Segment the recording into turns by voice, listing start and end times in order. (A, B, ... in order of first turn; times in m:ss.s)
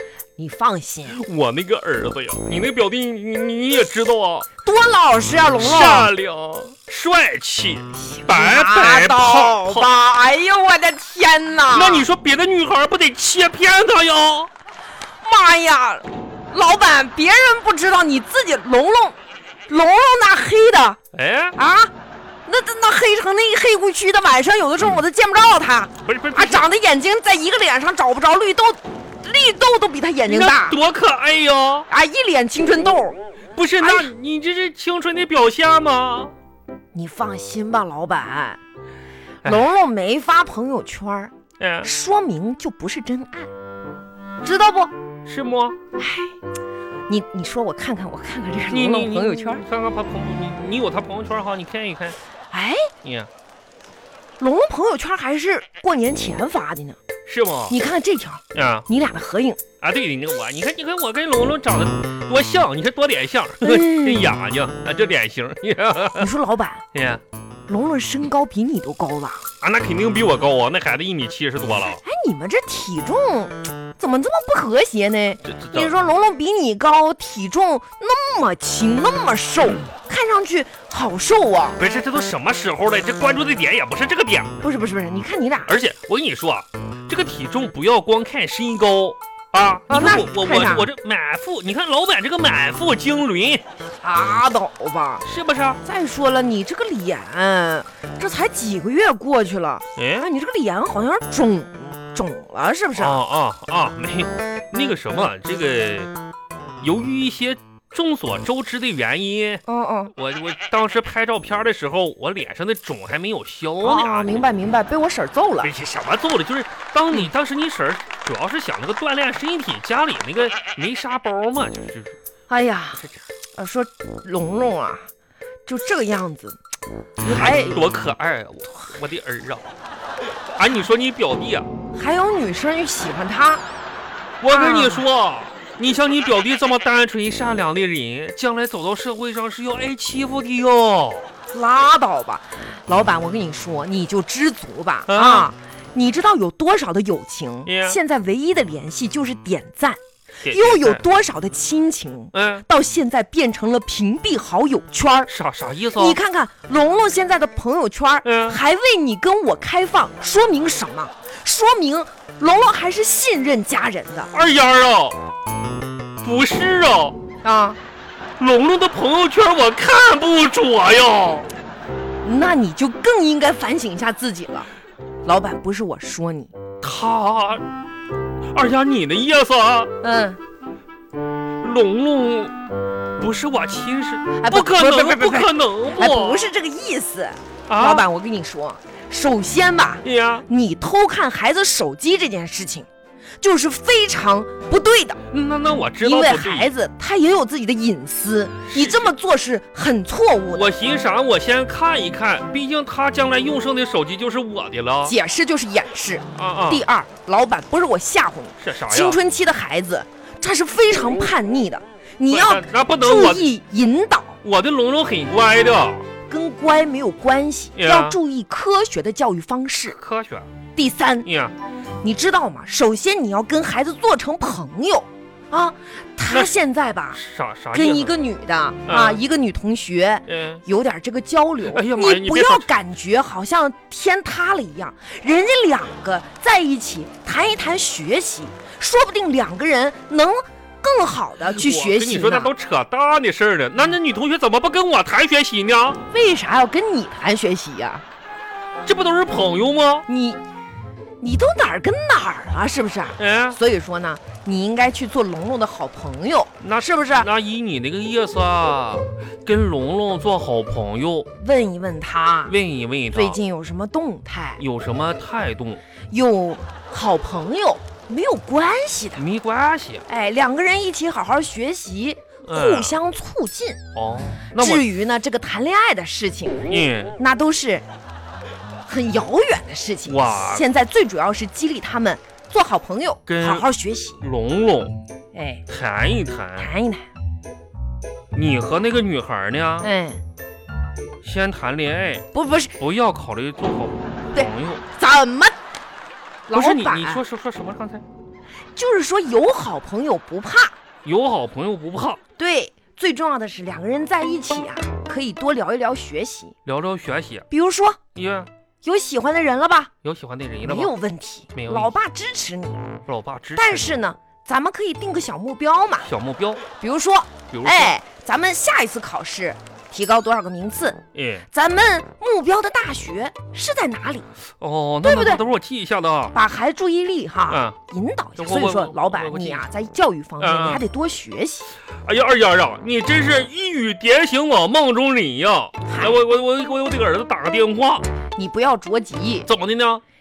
0:00.4-0:01.2 A
0:01.1-0:04.5 B
0:04.6-0:06.1 A
0:05.6-0:09.9 B
0:07.9-0:12.1 A
0:11.7-0:14.5 B
0:15.2-0:19.2 A
0:19.7-0:21.0 A
0:21.1-0:21.6 B
0:21.5-0:21.9 A
0:22.4-0:30.8 A
0:26.0-0:26.7 B
0:30.3-0:31.9 B
0:31.9-0:33.2 A
0:33.5-0:36.3 B
0:33.8-0:34.1 A
0:36.9-0:38.6 A
0:39.4-0:43.5 A
0:41.6-0:41.9 B
0:44.4-0:44.9 A
0:45.2-0:45.8 B
0:46.0-0:46.3 A
0:47.1-0:49.6 A
0:48.7-0:52.2 B
0:52.5-0:52.9 A
0:53.0-0:53.3 B
0:54.4-0:57.0 A
0:57.2-0:57.7 B
0:57.7-0:59.6 A
0:58.5-0:58.8 B
0:59.8-1:06.3 B
1:03.6-1:04.4 A
1:06.2-1:06.8 A
1:06.9-1:07.2 B
1:07.7-1:09.4 A
1:09.6-1:12.0 B
1:12.0-1:21.8 A
1:15.4-1:15.9 B
1:21.8-1:24.5 B
1:24.6-1:25.7 A
1:25.6-1:33.6 B
1:29.9-1:30.9 A
1:34.0-1:35.2 A
1:35.2-1:35.8 B
1:35.8-1:43.2 A
1:40.0-1:40.3 B
1:43.0-1:46.1 B
1:46.8-1:54.4 B
1:49.6-1:50.1 A
1:53.8-1:55.7 A
1:55.6-2:02.1 B
2:02.5-2:03.0 A
2:03.6-2:05.1 A
2:05.6-2:06.6 A
2:07.2-2:07.8 A
2:07.2-2:09.6 B
2:10.6-2:11.7 B
2:11.9-2:13.6 A
2:14.4-2:21.2 B
2:14.5-2:15.0 A
2:21.5-2:30.0 A
2:25.1-2:25.5 B
2:27.6-2:28.0 B
2:30.4-2:31.0 B
2:30.5-2:35.3 A
2:32.3-2:32.6 B
2:35.3-2:36.2 B
2:36.0-2:44.3 A
2:38.2-2:38.6 B
2:44.3-2:45.2 B
2:46.2-2:47.2 B
2:47.4-2:47.8 A
2:48.4-2:51.5 B
2:52.2-2:54.7 A
2:55.2-2:56.5 A
2:56.8-2:57.6 B
2:58.5-2:59.9 B
3:00.0-3:00.4 A
3:01.6-3:02.5 B
3:03.2-3:06.5 B
3:04.3-3:12.9 A
3:07.7-3:08.1 B
3:10.0-3:10.4 B
3:13.4-3:15.2 A
3:15.3-3:16.7 B
3:16.0-3:20.6 A
3:18.6-3:19.1 B
3:20.5-3:25.2 B
3:25.0-3:34.4 A
3:26.3-3:26.8 B
3:28.6-3:29.2 B
3:32.3-3:33.5 B
3:34.4-3:36.1 B
3:36.3-3:40.0 A
3:37.8-3:38.2 B
3:39.9-3:40.5 B
3:40.7-3:41.3 A
3:41.2-3:41.5 B
3:42.0-3:47.2 A
3:46.3-3:46.5 B
3:47.1-3:48.1 B
3:47.7-4:02.5 A
3:48.8-3:49.2 B
3:50.3-3:50.6 B
3:51.6-3:52.7 B
4:01.4-4:06.0 B
4:06.1-4:08.0 A
4:08.8-4:10.0 B
4:10.1-4:10.4 A
4:11.2-4:17.3 A
4:13.2-4:13.6 B
4:16.6-4:21.3 B
4:21.4-4:22.5 A
4:22.4-4:23.4 B
4:23.1-4:24.6 A
4:24.6-4:25.8 B
4:26.1-4:29.2 A
4:29.2-4:30.0 B
4:30.1-4:33.8 A
4:32.4-4:33.0 B
4:33.9-4:34.8 B
4:34.5-4:36.6 A
4:36.7-4:37.1 B
4:37.2-4:37.8 A
4:38.8-4:44.2 A
4:40.0-4:40.7 B
4:43.3-4:43.7 B
4:44.2-4:45.0 B
4:45.3-4:45.6 A
4:45.7-4:46.7 B
4:46.6-4:47.0 A
4:48.3-4:49.9 B
4:49.8-4:50.2 A
4:51.2-4:52.2 B
4:52.3-4:52.8 A
4:52.8-4:54.8 B
4:54.3-4:55.5 A
4:56.5-4:57.2 A
4:56.5-4:58.0 B
4:58.8-5:00.7 A
5:01.0-5:02.2 B
5:02.4-5:06.6 A
5:06.6-5:07.4 B
5:07.5-5:08.0 A
5:08.1-5:08.5 B
5:08.8-5:09.9 A
5:10.0-5:10.9 B
5:10.6-5:12.9 A
5:11.5-5:11.9 B
5:13.1-5:13.9 B
5:13.6-5:16.1 A
5:16.0-5:16.6 B
5:16.8-5:21.0 A
5:17.5-5:17.9 B
5:21.1-5:21.5 B
5:21.5-5:24.3 A
5:24.6-5:26.4 B
5:25.0-5:25.4 A
5:26.3-5:31.7 A
5:27.5-5:27.8 B
5:28.4-5:29.6 B
5:30.4-5:30.8 B
5:32.0-5:38.1 B
5:35.9-5:36.2 A
5:38.4-5:39.5 A
5:39.4-5:40.0 B